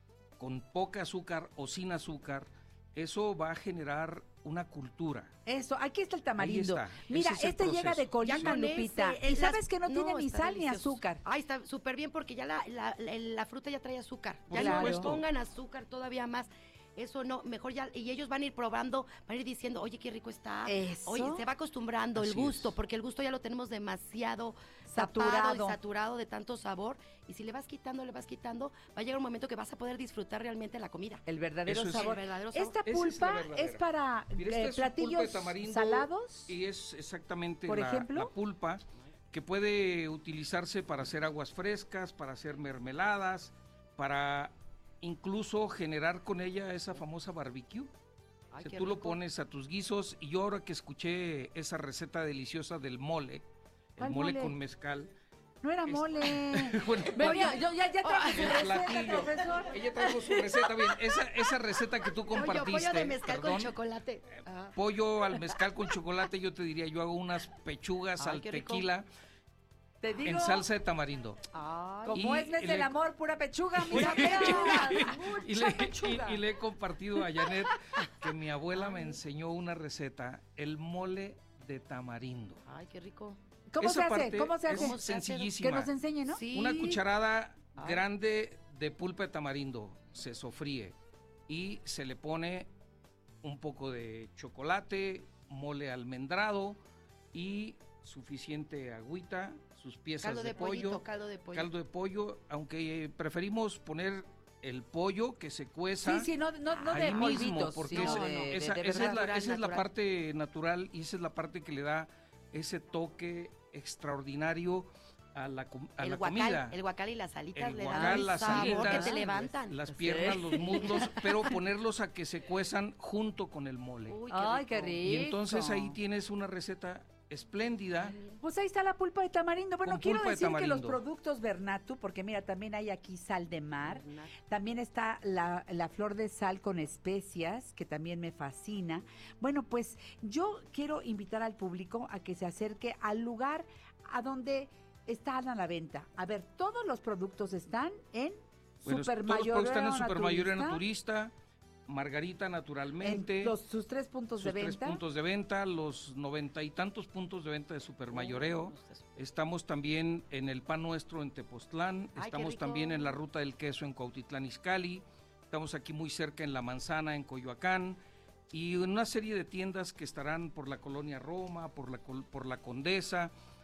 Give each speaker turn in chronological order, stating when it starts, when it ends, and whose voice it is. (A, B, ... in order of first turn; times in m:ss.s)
0:00.4-0:05.3 A
0:05.4-0:11.2 B
0:06.4-0:08.7 A
0:08.2-0:31.2 C
0:14.5-0:15.2 A
0:14.5-0:15.1 B
0:20.6-0:21.4 B
0:22.2-0:22.8 A
0:24.9-0:25.8 B
0:31.2-0:36.6 B
0:31.6-0:32.2 A
0:31.7-0:32.8 C
0:32.8-0:33.8 A
0:34.3-0:47.9 A
0:37.7-0:38.3 B
0:48.5-0:49.2 C
0:48.6-0:53.4 A
0:54.0-0:55.1 A
0:54.0-0:54.6 B
0:55.6-0:59.8 B
0:55.8-0:57.6 A
0:57.2-0:58.8 C
0:58.3-1:03.7 A
1:02.3-1:04.8 C
1:04.7-1:09.0 A
1:08.2-1:08.9 C
1:10.0-1:10.6 B
1:10.2-1:11.4 A
1:11.5-1:12.3 C
1:12.1-1:16.4 B
1:12.1-1:12.9 A
1:13.8-1:22.6 A
1:13.9-1:15.1 C
1:18.7-1:19.2 C
1:22.6-1:23.4 C
1:23.7-1:25.0 B
1:23.8-1:25.9 A
1:24.6-1:25.6 C
1:25.6-1:26.4 B
1:26.3-1:27.0 C
1:26.4-1:30.9 A
1:27.7-1:28.1 C
1:31.5-1:32.7 A
1:33.4-1:36.8 A
1:37.3-1:46.3 A
1:40.2-1:41.7 C
1:46.0-1:49.8 B
1:46.8-1:48.3 C
1:46.8-1:56.7 A
1:49.0-1:49.3 C
1:56.0-2:01.5 C
1:57.5-2:04.2 A
1:57.9-1:59.5 B
2:00.0-2:00.9 B
2:04.1-2:05.1 C
2:04.3-2:06.0 B
2:05.0-2:08.1 A
2:08.0-2:08.4 C
2:08.4-2:30.8 B
2:09.8-2:11.0 A
2:13.8-2:14.3 C
2:28.8-2:31.3 A
2:31.9-2:33.5 A
2:33.0-2:35.0 B
2:34.4-2:53.3 A
2:38.1-2:39.1 C
2:42.1-2:43.2 C